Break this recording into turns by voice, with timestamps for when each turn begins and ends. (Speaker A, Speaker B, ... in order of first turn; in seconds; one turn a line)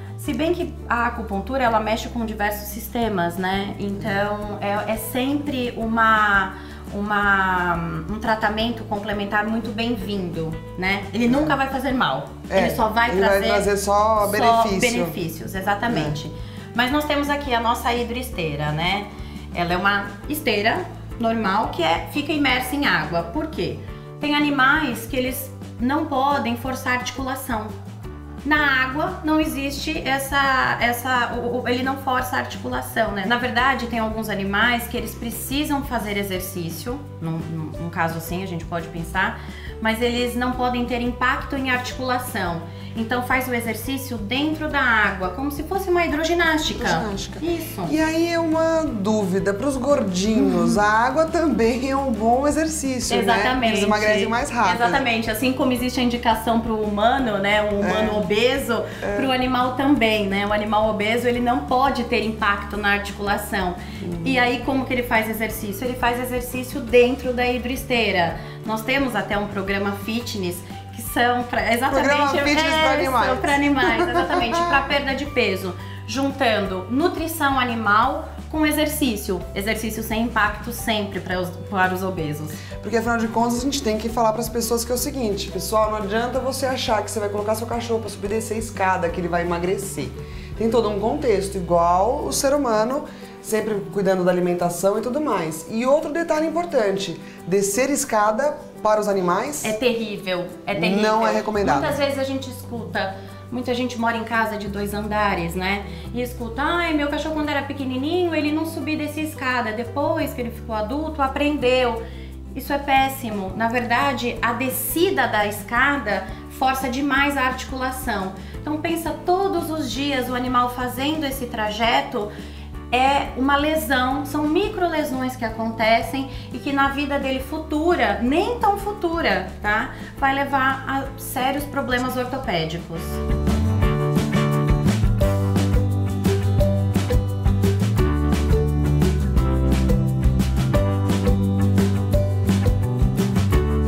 Speaker A: 0.2-27.8
Speaker B: 11.2-11.5
Speaker B: 12.5-15.2
Speaker B: 15.9-16.2
Speaker A: 28.4-48.0
Speaker B: 46.7-55.0
Speaker A: 50.3-50.8
Speaker A: 53.1-82.6
Speaker B: 57.8-58.3
Speaker B: 59.0-59.3
Speaker B: 64.0-64.5
Speaker B: 71.9-74.8
Speaker B: 82.8-99.8
Speaker A: 99.6-122.3
Speaker B: 100.7-102.0
Speaker A: 122.9-133.2